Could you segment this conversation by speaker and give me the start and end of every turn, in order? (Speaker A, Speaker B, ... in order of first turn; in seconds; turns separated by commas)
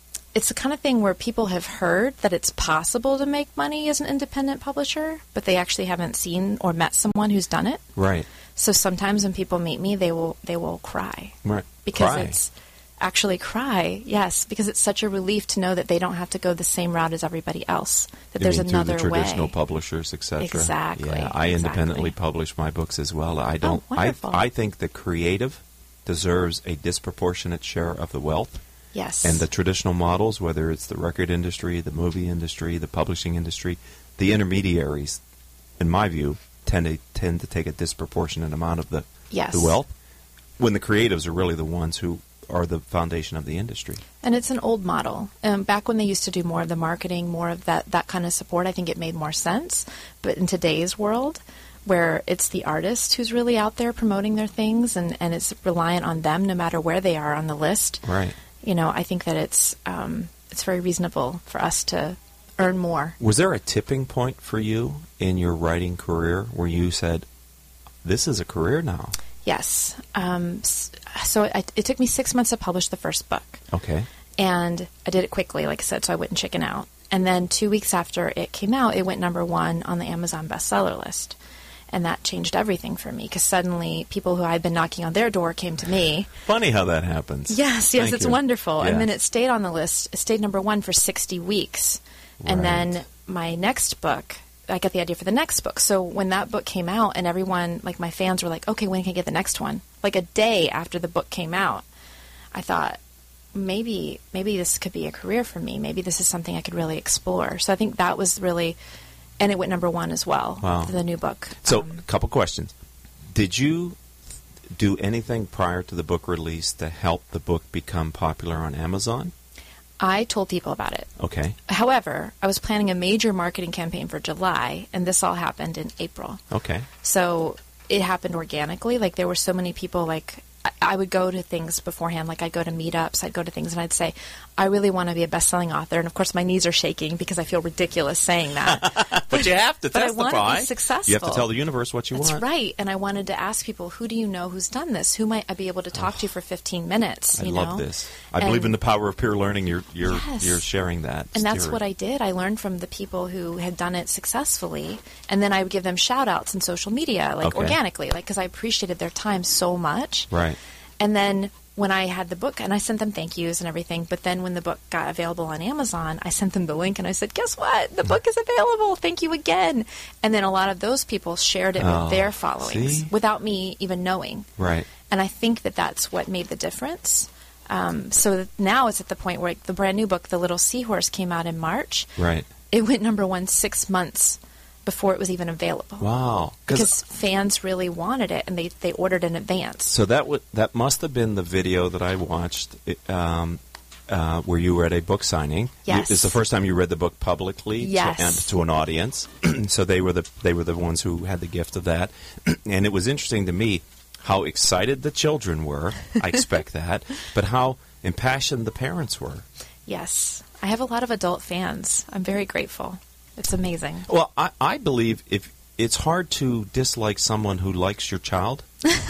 Speaker A: 0.3-7.8, Speaker B: 8.0-8.3, Speaker A: 8.6-19.5, Speaker B: 11.4-12.4, Speaker B: 18.4-28.6, Speaker A: 20.4-22.1, Speaker A: 23.6-24.4, Speaker A: 28.9-29.4, Speaker B: 29.2-35.2, Speaker B: 35.8-39.9, Speaker A: 39.3-39.8, Speaker B: 40.6-44.0, Speaker A: 44.2-58.0, Speaker B: 58.0-58.4, Speaker A: 58.6-63.2, Speaker B: 63.2-67.3, Speaker B: 68.0-69.2, Speaker A: 69.4-73.6, Speaker B: 73.7-74.1, Speaker A: 74.4-81.4, Speaker A: 81.9-86.3, Speaker B: 86.4-89.1, Speaker A: 87.5-101.8, Speaker B: 92.4-92.9, Speaker A: 102.5-103.0, Speaker A: 103.5-108.8, Speaker A: 109.4-112.0, Speaker B: 110.6-110.9, Speaker B: 111.6-112.7, Speaker B: 113.3-114.0, Speaker B: 114.7-119.3, Speaker A: 120.0-121.1, Speaker B: 121.2-121.6, Speaker A: 121.7-126.4, Speaker B: 126.5-126.9, Speaker A: 127.0-141.5, Speaker B: 138.7-142.4, Speaker A: 142.1-147.8, Speaker B: 147.3-151.8, Speaker A: 148.4-148.8, Speaker A: 150.1-150.6, Speaker A: 151.3-160.3, Speaker B: 157.4-157.8, Speaker B: 160.3-160.6, Speaker A: 161.0-174.5, Speaker B: 171.8-173.1, Speaker B: 174.6-174.9, Speaker A: 175.1-182.1, Speaker B: 182.2-182.5, Speaker A: 182.7-186.1, Speaker B: 186.0-186.9, Speaker A: 186.7-189.9, Speaker B: 189.9-209.4, Speaker A: 195.8-196.4, Speaker A: 197.8-198.5, Speaker A: 209.9-214.1, Speaker B: 214.1-218.7